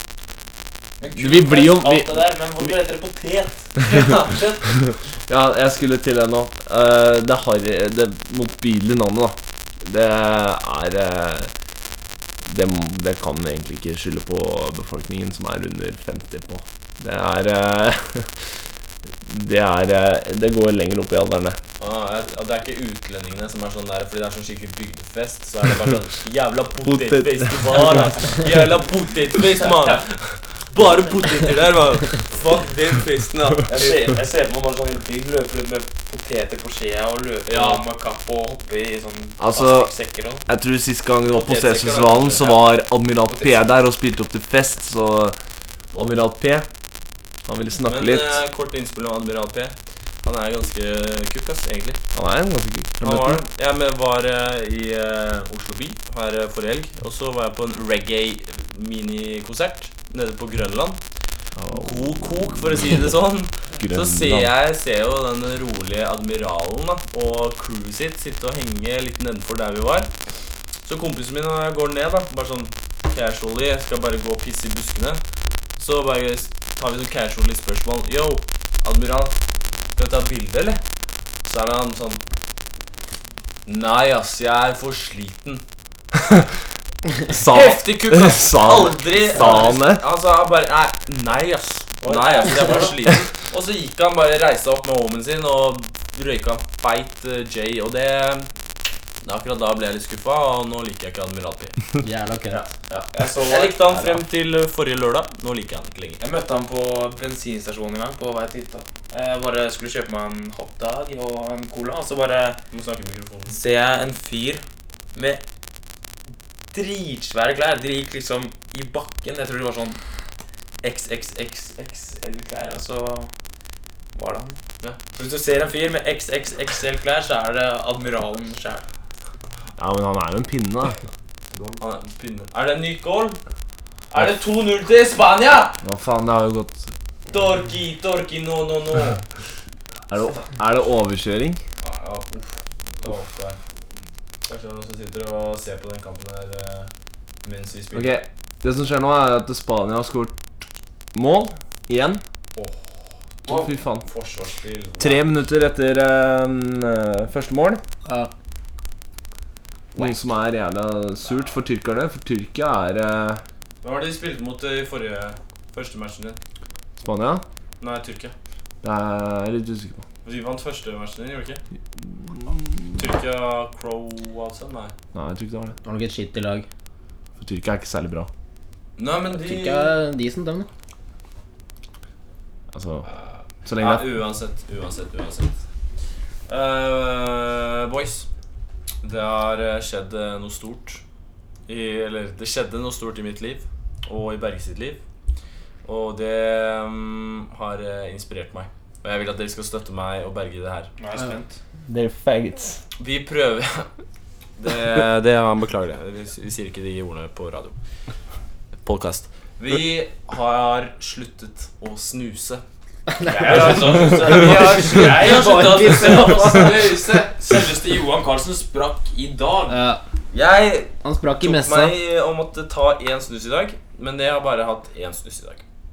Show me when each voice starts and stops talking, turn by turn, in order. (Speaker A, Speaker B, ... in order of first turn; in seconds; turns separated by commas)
Speaker A: 1.0-4.7, Speaker B: 1.1-2.7, Speaker B: 5.3-11.5, Speaker B: 12.4-18.3, Speaker B: 19.2-21.6, Speaker C: 21.8-30.2, Speaker B: 26.8-27.8, Speaker A: 29.4-30.0, Speaker C: 30.7-34.0, Speaker A: 33.6-40.4, Speaker C: 37.5-37.8, Speaker B: 39.4-39.9, Speaker B: 40.5-45.4, Speaker C: 41.2-42.7, Speaker A: 43.3-43.7, Speaker B: 45.9-46.7, Speaker B: 47.5-48.4, Speaker C: 47.8-52.0, Speaker B: 52.1-53.4, Speaker C: 53.0-61.0, Speaker B: 61.5-62.6, Speaker C: 61.7-70.1, Speaker B: 63.8-64.5, Speaker C: 70.8-75.2, Speaker C: 75.8-79.3, Speaker C: 79.9-80.8, Speaker C: 81.4-82.2, Speaker C: 83.7-85.6, Speaker B: 87.3-90.0, Speaker C: 87.4-98.5, Speaker A: 92.0-93.1, Speaker C: 99.2-101.8, Speaker D: 102.0-102.6, Speaker C: 102.5-106.2, Speaker A: 103.1-104.2, Speaker A: 106.2-112.6, Speaker C: 112.7-113.6, Speaker A: 113.5-114.6, Speaker A: 115.1-115.4, Speaker A: 116.7-120.0, Speaker A: 120.8-123.3, Speaker A: 124.1-124.5, Speaker A: 125.1-128.8, Speaker B: 129.8-131.0, Speaker C: 131.8-133.4, Speaker C: 134.1-135.8, Speaker B: 135.8-136.9, Speaker C: 137.3-139.2, Speaker B: 140.1-141.6, Speaker C: 141.8-143.6, Speaker C: 144.4-146.9, Speaker C: 147.4-148.2, Speaker B: 147.9-150.3, Speaker B: 151.1-152.2, Speaker C: 152.6-152.9, Speaker B: 153.4-154.1, Speaker C: 154.0-155.3, Speaker B: 155.0-157.8, Speaker D: 158.1-158.3, Speaker B: 159.9-163.4, Speaker C: 163.8-166.4, Speaker B: 167.0-167.4, Speaker C: 167.8-168.3, Speaker B: 168.8-170.0, Speaker C: 170.2-171.6, Speaker B: 172.0-173.0, Speaker C: 172.9-174.9, Speaker B: 175.1-175.7, Speaker D: 175.8-176.7, Speaker B: 177.4-178.3, Speaker C: 179.0-179.9, Speaker D: 179.3-180.7, Speaker B: 182.7-183.1, Speaker C: 183.1-185.6, Speaker B: 183.6-184.2, Speaker C: 186.5-188.3, Speaker C: 189.0-191.0, Speaker C: 191.7-195.0, Speaker C: 195.8-200.9, Speaker A: 201.0-201.6, Speaker B: 201.9-202.8, Speaker C: 203.0-203.9, Speaker C: 204.6-207.8, Speaker C: 208.8-212.6, Speaker D: 213.2-216.7, Speaker C: 213.3-215.4, Speaker A: 213.3-219.8, Speaker C: 216.0-217.1, Speaker D: 219.7-220.0, Speaker C: 220.3-225.6, Speaker D: 221.0-221.9